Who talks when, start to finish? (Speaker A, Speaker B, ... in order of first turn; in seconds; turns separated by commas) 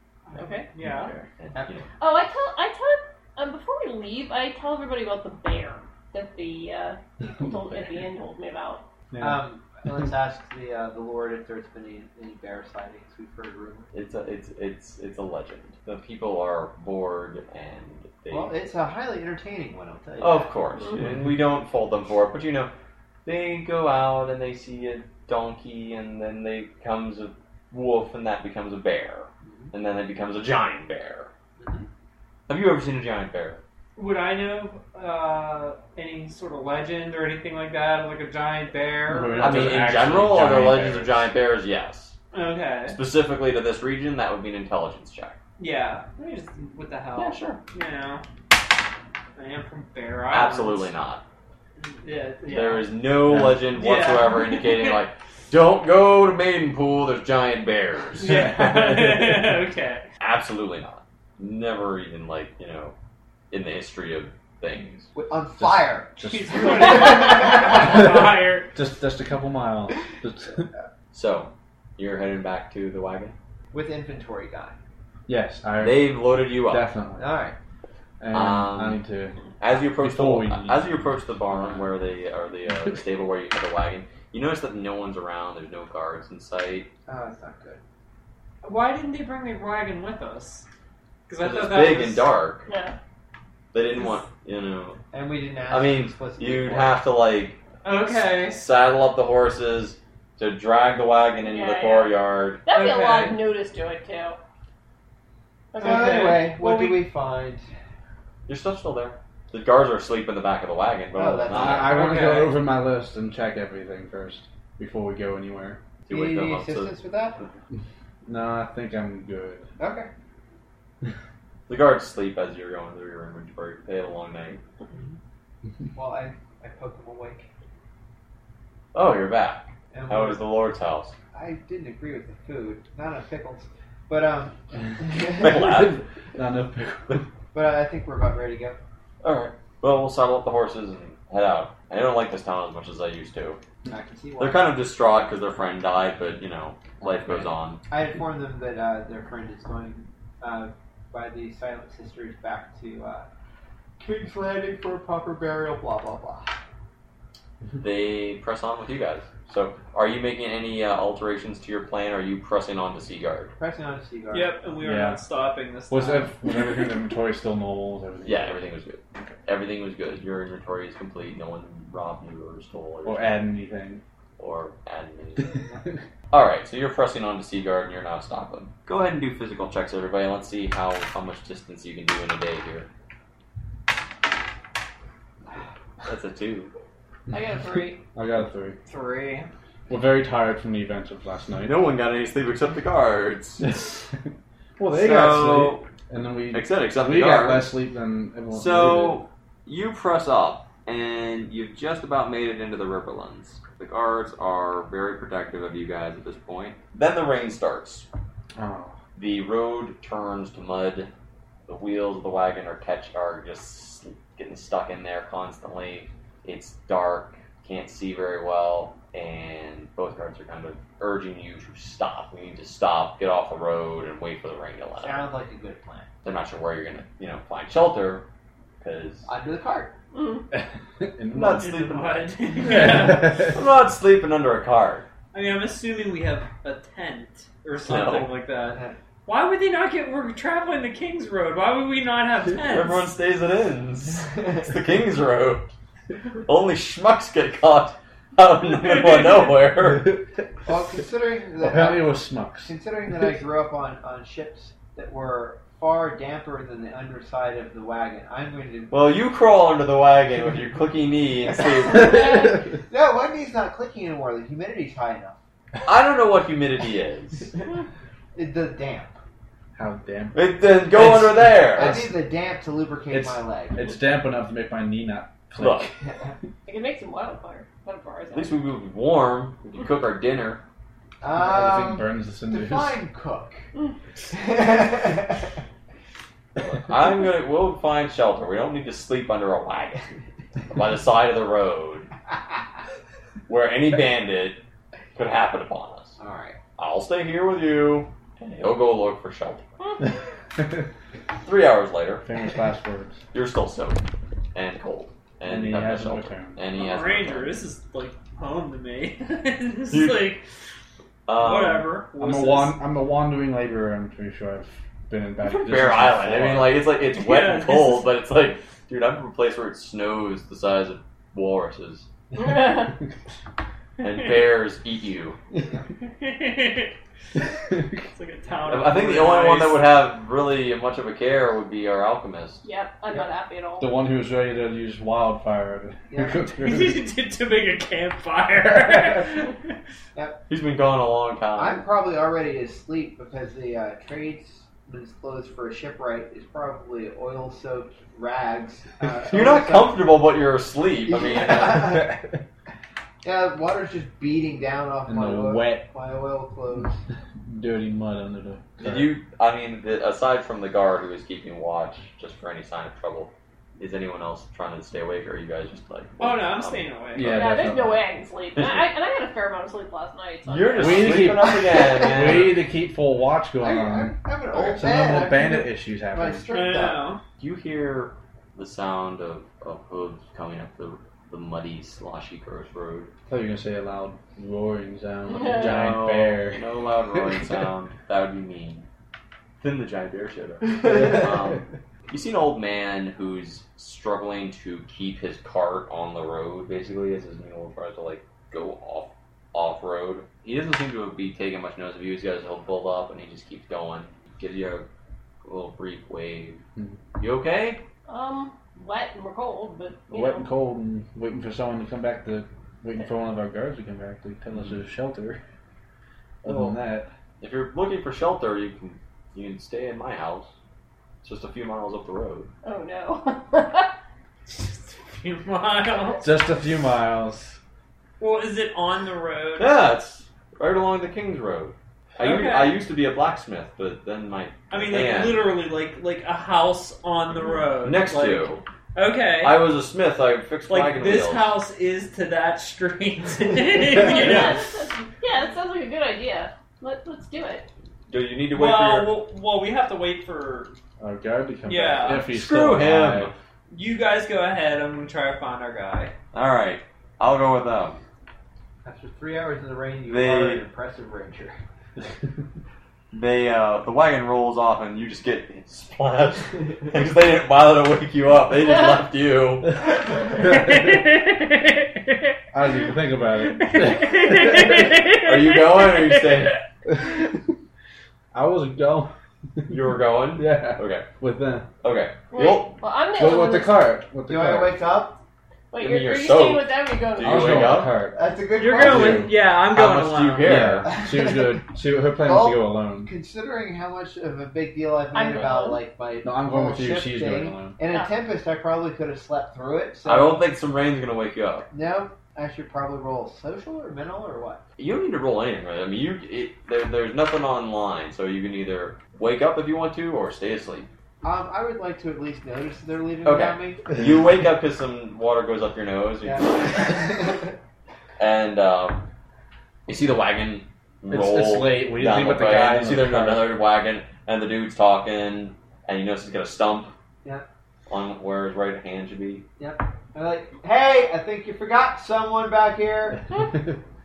Speaker A: 0.3-1.1, Speaker B: 0.3-0.7, Speaker C: 0.8-1.9, Speaker D: 1.5-1.8, Speaker B: 2.0-8.8, Speaker E: 9.1-9.4, Speaker D: 9.2-13.9, Speaker C: 13.9-18.5, Speaker D: 18.3-20.6, Speaker C: 20.2-22.7, Speaker E: 21.0-21.3, Speaker C: 23.2-31.3, Speaker D: 29.4-29.7, Speaker D: 31.6-31.9, Speaker C: 32.5-33.6, Speaker A: 34.0-39.9, Speaker E: 39.0-41.3, Speaker C: 39.4-42.2, Speaker A: 42.3-43.0, Speaker C: 42.9-45.4, Speaker A: 45.6-48.2, Speaker C: 47.2-47.6, Speaker A: 49.4-50.9, Speaker C: 50.3-51.2, Speaker A: 51.8-52.9, Speaker C: 52.5-58.5, Speaker E: 53.3-53.7, Speaker A: 53.8-55.0, Speaker A: 58.2-60.0, Speaker E: 58.2-59.5, Speaker C: 60.2-62.9, Speaker C: 63.5-65.1, Speaker D: 65.1-67.8, Speaker E: 65.6-70.7, Speaker A: 66.2-68.7, Speaker C: 71.1-73.3, Speaker D: 73.7-74.8, Speaker E: 75.3-77.4, Speaker C: 75.8-76.8, Speaker D: 77.2-77.5, Speaker E: 78.2-79.4, Speaker C: 78.3-79.0, Speaker C: 79.6-86.9, Speaker E: 80.0-81.8, Speaker D: 87.1-87.8, Speaker A: 88.6-90.7, Speaker A: 91.3-92.3, Speaker C: 91.4-92.7, Speaker B: 92.7-93.0, Speaker C: 93.7-95.0, Speaker D: 95.1-97.0, Speaker C: 95.7-102.6, Speaker A: 97.8-98.7, Speaker B: 101.4-104.4, Speaker A: 102.7-103.4, Speaker B: 105.7-106.5, Speaker A: 105.8-107.0, Speaker D: 105.8-107.6, Speaker C: 108.5-112.1, Speaker D: 111.1-112.0, Speaker E: 111.5-115.8, Speaker A: 111.9-112.6, Speaker C: 116.1-117.5, Speaker D: 116.1-117.4, Speaker E: 118.3-119.7, Speaker D: 119.8-120.1, Speaker C: 121.7-124.6, Speaker D: 124.9-125.2, Speaker D: 126.0-127.5, Speaker C: 128.9-131.1, Speaker D: 129.9-130.4, Speaker D: 131.3-135.7, Speaker C: 135.3-136.0, Speaker E: 135.4-137.2, Speaker D: 137.5-138.8, Speaker C: 139.2-143.6, Speaker D: 143.9-144.8, Speaker C: 144.4-147.8, Speaker E: 147.1-147.5, Speaker D: 147.9-153.3, Speaker D: 154.0-156.5, Speaker C: 157.8-163.5, Speaker D: 163.6-164.6, Speaker A: 164.3-166.5, Speaker E: 164.8-165.2, Speaker E: 165.9-168.6, Speaker C: 168.2-173.5, Speaker E: 173.1-174.0, Speaker C: 174.4-175.6, Speaker C: 176.3-182.9, Speaker C: 186.0-186.7, Speaker B: 187.3-188.0, Speaker E: 188.1-188.8, Speaker A: 188.9-189.5, Speaker E: 189.9-191.9, Speaker C: 191.6-193.7, Speaker E: 193.6-194.2, Speaker E: 194.8-199.2, Speaker C: 194.9-195.9, Speaker C: 196.5-197.8, Speaker C: 198.5-208.1, Speaker E: 208.6-209.0, Speaker C: 209.2-211.1, Speaker C: 211.7-225.3, Speaker D: 225.0-226.1, Speaker C: 226.2-228.2, Speaker C: 228.8-229.3, Speaker D: 229.3-229.9, Speaker B: 230.1-230.4, Speaker E: 230.5-231.7, Speaker C: 231.3-235.1, Speaker A: 231.6-233.5, Speaker E: 232.6-233.6, Speaker A: 235.3-243.1, Speaker C: 237.8-238.3, Speaker D: 238.6-239.0, Speaker C: 242.6-245.7, Speaker C: 246.4-250.2, Speaker A: 248.8-249.5, Speaker D: 250.7-258.9, Speaker E: 251.6-252.7, Speaker C: 258.9-262.5, Speaker D: 261.9-265.4, Speaker C: 265.9-267.5, Speaker D: 268.4-269.1, Speaker E: 269.7-272.2, Speaker C: 270.3-272.0, Speaker D: 271.7-273.9, Speaker E: 273.1-275.9, Speaker C: 275.6-275.9, Speaker D: 276.1-276.3, Speaker B: 276.7-278.6, Speaker C: 278.3-280.6, Speaker D: 281.2-283.6, Speaker E: 281.3-283.0, Speaker D: 284.3-285.4, Speaker C: 286.6-290.1, Speaker C: 290.7-292.1, Speaker C: 293.5-294.6, Speaker C: 295.1-296.2, Speaker D: 296.2-296.6, Speaker C: 296.8-299.6, Speaker C: 301.4-302.3, Speaker E: 302.2-303.2, Speaker C: 303.3-304.0, Speaker C: 304.6-307.6, Speaker E: 305.4-306.6, Speaker A: 306.7-310.4, Speaker C: 309.9-310.3, Speaker C: 311.3-311.9, Speaker A: 311.4-312.8, Speaker E: 312.2-316.9, Speaker C: 315.4-322.1, Speaker A: 317.1-318.1, Speaker B: 322.3-322.9, Speaker C: 324.0-325.4, Speaker D: 325.6-325.9, Speaker A: 326.0-326.9, Speaker E: 327.7-328.0, Speaker A: 328.1-330.0, Speaker C: 328.7-332.6, Speaker B: 332.6-333.9, Speaker E: 333.8-337.0, Speaker D: 336.1-336.5, Speaker A: 336.6-339.6, Speaker D: 340.1-340.4, Speaker C: 340.5-341.9, Speaker D: 341.6-350.1, Speaker C: 349.3-352.1, Speaker D: 351.1-352.2, Speaker E: 351.7-352.4, Speaker D: 353.2-357.0, Speaker E: 355.1-355.9, Speaker E: 357.4-359.1, Speaker C: 358.8-367.5, Speaker A: 366.2-367.3, Speaker E: 367.1-368.1, Speaker B: 367.2-371.3, Speaker C: 368.6-368.9, Speaker C: 370.4-372.6, Speaker E: 370.8-376.4, Speaker D: 371.4-372.4, Speaker D: 373.6-377.1, Speaker A: 376.5-377.2, Speaker C: 377.4-383.1, Speaker E: 383.3-387.4, Speaker B: 385.3-385.6, Speaker C: 385.4-388.9, Speaker C: 389.6-404.9, Speaker E: 390.8-391.5, Speaker C: 405.4-406.6, Speaker C: 407.2-407.8, Speaker B: 408.1-410.5, Speaker E: 410.1-415.4, Speaker C: 416.4-416.8, Speaker E: 416.4-417.1, Speaker C: 417.4-420.5, Speaker C: 421.2-422.5, Speaker B: 422.6-423.9, Speaker A: 424.5-426.2, Speaker E: 426.2-427.6, Speaker A: 428.2-429.8, Speaker C: 429.6-435.5, Speaker A: 432.2-432.8, Speaker A: 434.7-439.6, Speaker C: 437.8-438.6, Speaker C: 439.4-441.6, Speaker A: 440.7-444.6, Speaker B: 443.9-447.7, Speaker C: 448.1-449.1, Speaker A: 448.5-450.7, Speaker E: 451.0-453.3, Speaker A: 451.7-452.3, Speaker C: 452.2-453.3, Speaker A: 453.7-456.1, Speaker C: 456.3-458.0, Speaker D: 458.8-461.6, Speaker C: 460.1-460.6, Speaker C: 463.1-469.8, Speaker A: 470.3-472.3, Speaker E: 472.5-474.7, Speaker A: 473.4-476.5, Speaker C: 475.2-476.6, Speaker E: 476.9-477.2, Speaker E: 478.3-481.7, Speaker C: 479.7-481.1, Speaker C: 481.8-482.8, Speaker B: 482.3-483.9, Speaker E: 483.1-484.8, Speaker D: 484.3-485.2, Speaker B: 485.7-487.8, Speaker C: 485.8-487.9, Speaker E: 487.2-489.4, Speaker D: 488.0-489.3, Speaker A: 488.6-490.7, Speaker C: 489.6-490.9, Speaker E: 490.4-493.1, Speaker D: 490.9-491.6, Speaker D: 492.2-500.4, Speaker B: 495.1-495.8, Speaker E: 496.2-497.8, Speaker C: 500.1-501.7, Speaker D: 501.7-504.6, Speaker C: 504.8-510.9, Speaker D: 511.2-513.9, Speaker C: 513.2-517.3, Speaker D: 516.2-517.5, Speaker C: 518.2-519.1, Speaker C: 519.9-526.9, Speaker E: 521.1-523.5, Speaker C: 527.9-529.5, Speaker D: 529.6-533.5, Speaker B: 533.3-533.6